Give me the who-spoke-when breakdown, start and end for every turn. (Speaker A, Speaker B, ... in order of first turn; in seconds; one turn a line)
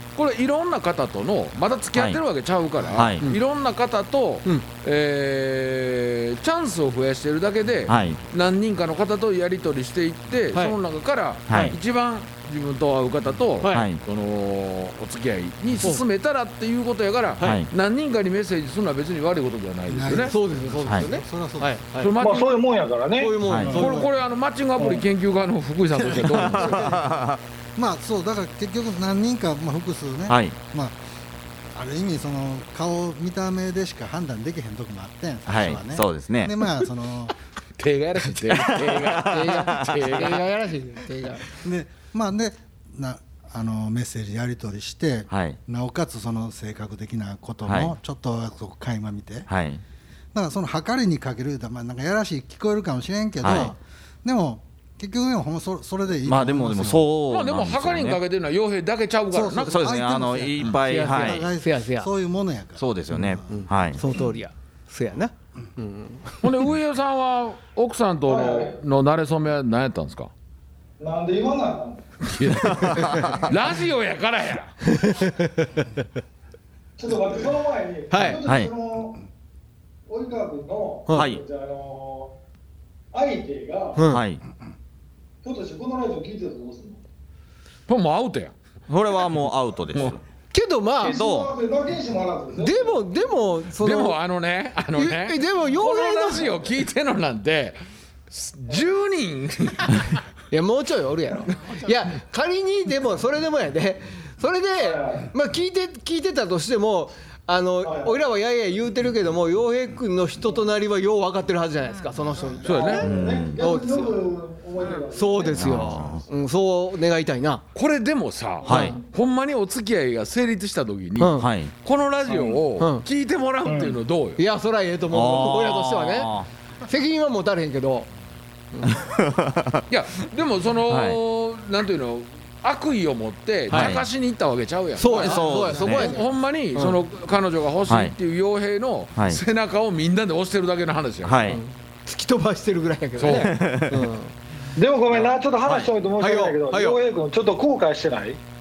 Speaker A: 0.2-20.4
Speaker B: 1.9-2.2
Speaker B: 2.9-3.2
Speaker B: 7.9-8.2
Speaker B: 11.5-11.8
Speaker C: 13.6-13.9
Speaker B: 13.7-14.0
Speaker B: 17.4-17.7
Speaker D: 19.9-21.8
Speaker C: 20.3-22.2
Speaker A: 22.0-22.6
Speaker E: 22.2-23.4
Speaker C: 23.2-24.1
Speaker B: 23.4-23.8
Speaker D: 23.5-24.1
Speaker A: 23.7-26.8
Speaker D: 25.9-27.1
Speaker B: 26.5-27.4
Speaker D: 27.8-31.0
Speaker B: 30.3-30.6
Speaker D: 31.7-37.4
Speaker B: 35.5-36.7
Speaker A: 37.8-40.5
Speaker B: 38.5-40.3
Speaker C: 39.2-41.4
Speaker D: 41.6-49.5
Speaker B: 45.3-45.6
Speaker B: 47.7-48.0
Speaker B: 49.5-49.8
Speaker D: 50.3-57.1
Speaker B: 53.4-53.7
Speaker C: 53.5-53.7
Speaker B: 56.3-58.2
Speaker A: 57.3-59.8
Speaker D: 59.3-63.5
Speaker B: 59.7-61.5
Speaker C: 60.8-62.1
Speaker B: 62.8-64.0
Speaker C: 63.5-66.4
Speaker A: 66.4-70.3
Speaker E: 68.3-68.8
Speaker E: 71.0-72.0
Speaker A: 72.2-74.8
Speaker B: 72.7-73.4
Speaker C: 73.2-73.5
Speaker C: 74.9-75.9
Speaker E: 77.0-79.2
Speaker C: 78.1-78.4
Speaker B: 78.5-78.7
Speaker E: 80.1-82.3
Speaker B: 81.1-81.4
Speaker E: 83.1-84.0
Speaker C: 84.0-84.2
Speaker B: 84.1-84.4
Speaker E: 85.4-87.0
Speaker A: 87.9-88.5
Speaker B: 88.9-90.2
Speaker C: 90.5-91.2
Speaker E: 91.0-93.0
Speaker B: 91.1-91.5
Speaker C: 92.6-94.2
Speaker A: 93.8-97.8
Speaker C: 95.0-96.6
Speaker A: 98.3-100.2
Speaker C: 100.5-114.1
Speaker E: 104.8-105.3
Speaker E: 107.8-108.2
Speaker A: 112.6-113.1
Speaker E: 112.7-116.2
Speaker B: 113.0-113.6
Speaker C: 115.1-117.6
Speaker B: 115.5-116.2
Speaker A: 117.8-124.4
Speaker C: 118.6-118.9
Speaker B: 118.6-119.0
Speaker C: 121.2-121.5
Speaker B: 121.4-121.7
Speaker C: 122.3-123.0
Speaker E: 123.7-124.0
Speaker C: 124.4-126.3
Speaker B: 125.1-126.5
Speaker C: 126.9-128.1
Speaker C: 128.7-129.0
Speaker B: 128.9-129.8
Speaker A: 129.9-141.4
Speaker B: 130.9-131.2
Speaker B: 133.7-134.1
Speaker C: 133.7-134.0
Speaker C: 135.0-136.2
Speaker B: 135.2-136.2
Speaker D: 135.6-136.2
Speaker B: 137.9-138.1
Speaker B: 141.2-141.6
Speaker C: 141.5-144.3
Speaker A: 143.2-143.5
Speaker B: 143.4-144.0
Speaker E: 144.8-148.4
Speaker B: 145.1-145.9
Speaker C: 146.2-147.0